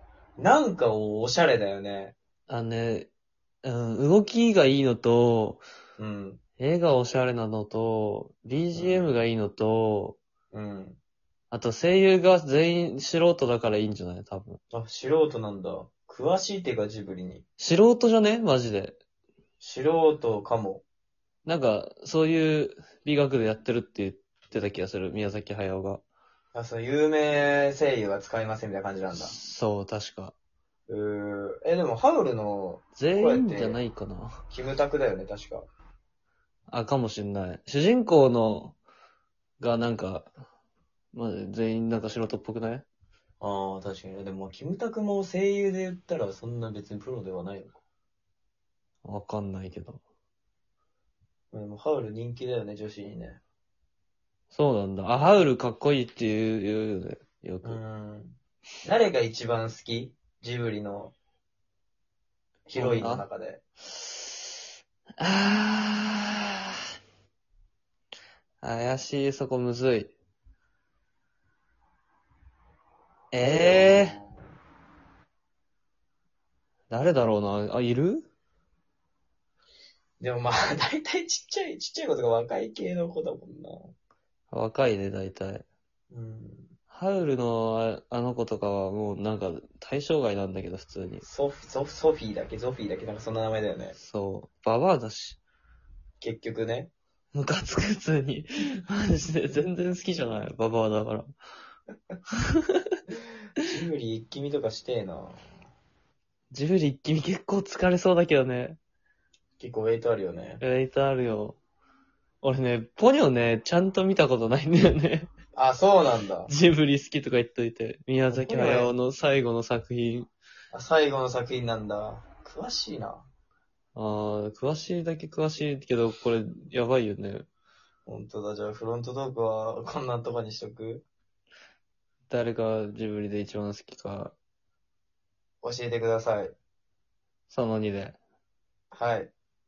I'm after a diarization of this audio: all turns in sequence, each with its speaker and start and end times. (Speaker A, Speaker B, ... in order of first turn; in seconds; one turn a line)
Speaker A: 0.4-2.1
Speaker B: 2.5-3.1
Speaker B: 3.6-5.6
Speaker A: 6.0-6.4
Speaker B: 6.6-10.2
Speaker A: 8.7-9.1
Speaker A: 10.5-11.0
Speaker B: 11.5-14.6
Speaker A: 14.7-17.4
Speaker B: 17.6-19.0
Speaker A: 19.6-20.8
Speaker B: 21.4-26.0
Speaker A: 26.5-29.4
Speaker B: 29.1-30.4
Speaker A: 30.9-33.8
Speaker B: 33.0-34.4
Speaker A: 34.5-35.7
Speaker B: 36.7-38.8
Speaker B: 39.6-40.3
Speaker B: 41.1-42.9
Speaker A: 43.4-47.8
Speaker B: 49.0-50.0
Speaker A: 51.5-53.4
Speaker B: 54.5-57.8
Speaker A: 57.6-61.1
Speaker A: 62.7-63.6
Speaker B: 62.8-63.2
Speaker B: 65.2-66.4
Speaker B: 68.6-70.1
Speaker B: 73.3-74.1
Speaker A: 73.4-74.5
Speaker B: 76.9-78.3
Speaker A: 80.2-83.9
Speaker B: 84.5-85.7
Speaker A: 86.1-86.7
Speaker B: 86.9-91.2
Speaker A: 91.2-94.0
Speaker B: 94.0-95.4
Speaker A: 96.2-96.9
Speaker B: 97.3-101.3
Speaker B: 102.6-103.0
Speaker A: 103.6-105.4
Speaker B: 106.5-108.8
Speaker A: 109.6-110.6
Speaker B: 110.6-111.6
Speaker B: 112.4-115.3
Speaker A: 115.5-116.5
Speaker B: 116.5-120.3
Speaker A: 118.3-118.9
Speaker A: 120.7-123.3
Speaker B: 123.9-127.5
Speaker A: 128.1-131.0
Speaker B: 132.3-134.3
Speaker A: 135.6-136.5
Speaker B: 137.5-138.2
Speaker A: 138.9-139.3